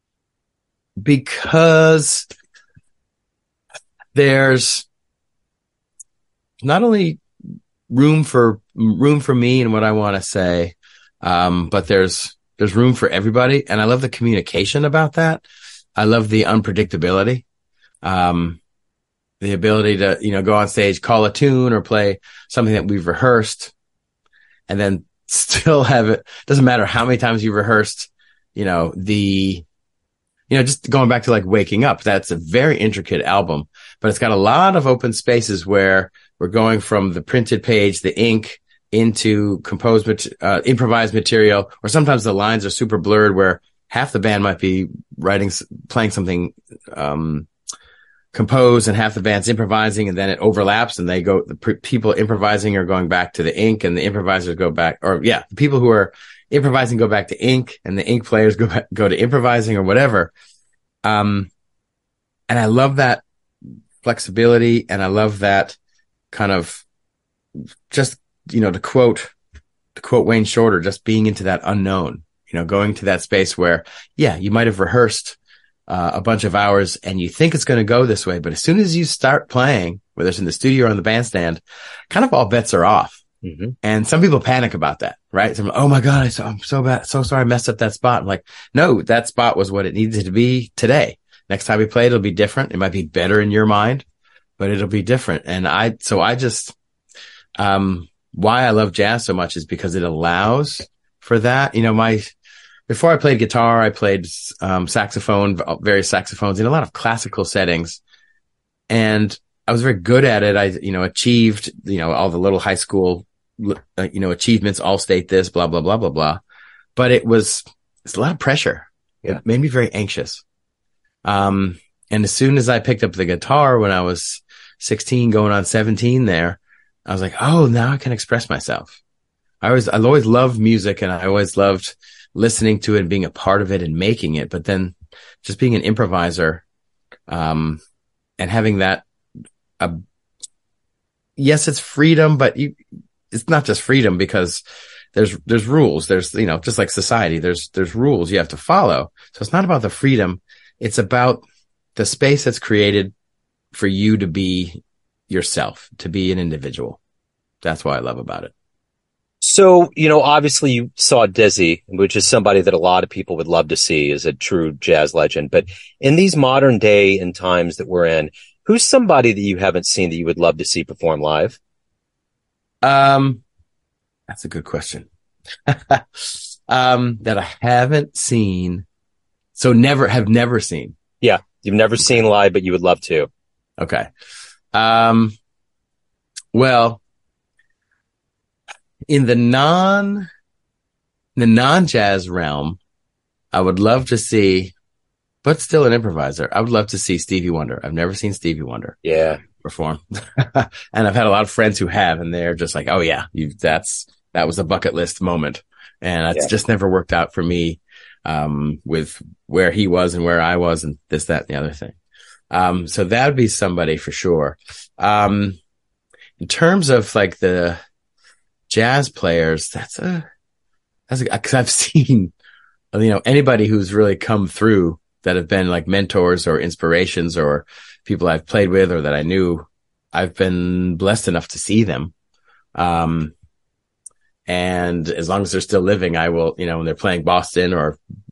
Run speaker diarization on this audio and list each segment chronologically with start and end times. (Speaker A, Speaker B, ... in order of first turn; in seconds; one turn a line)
Speaker A: 1.0-2.2
Speaker A: 4.1-4.9
Speaker A: 6.6-7.2
Speaker A: 7.9-15.4
Speaker A: 16.0-17.4
Speaker A: 18.0-18.6
Speaker A: 19.4-23.7
Speaker A: 24.7-29.6
Speaker A: 30.5-47.5
Speaker A: 48.3-60.3
Speaker A: 61.0-61.5
Speaker A: 62.5-63.2
Speaker A: 64.0-65.8
Speaker A: 66.3-66.8
Speaker A: 67.9-69.3
Speaker A: 70.0-75.4
Speaker A: 75.9-83.2
Speaker B: 83.4-83.7
Speaker A: 83.8-94.0
Speaker A: 94.6-96.7
Speaker A: 97.6-102.3
Speaker A: 102.9-108.0
Speaker A: 108.9-116.4
Speaker A: 117.0-120.4
Speaker A: 121.2-129.0
Speaker A: 129.6-136.6
Speaker A: 137.3-137.8
Speaker A: 138.4-139.0
Speaker A: 141.4-142.8
Speaker A: 143.3-144.6
Speaker A: 145.1-151.4
Speaker A: 151.9-153.1
Speaker A: 153.7-157.0
Speaker A: 157.6-158.5
Speaker B: 159.4-171.6
Speaker A: 172.8-173.4
Speaker A: 174.3-175.1
Speaker A: 175.7-178.8
Speaker A: 179.6-180.9
Speaker B: 181.2-183.3
Speaker A: 183.8-184.1
Speaker A: 184.7-185.3
Speaker A: 186.5-187.0
Speaker A: 189.1-190.3
Speaker A: 191.3-192.8
Speaker A: 193.5-194.7
Speaker A: 195.4-198.9
Speaker B: 199.0-199.4
Speaker A: 199.5-212.0
Speaker A: 212.5-215.6
Speaker A: 216.4-217.8
Speaker A: 218.7-220.2
Speaker A: 221.1-222.3
Speaker A: 222.9-232.1
Speaker A: 232.7-233.3
Speaker A: 234.5-238.0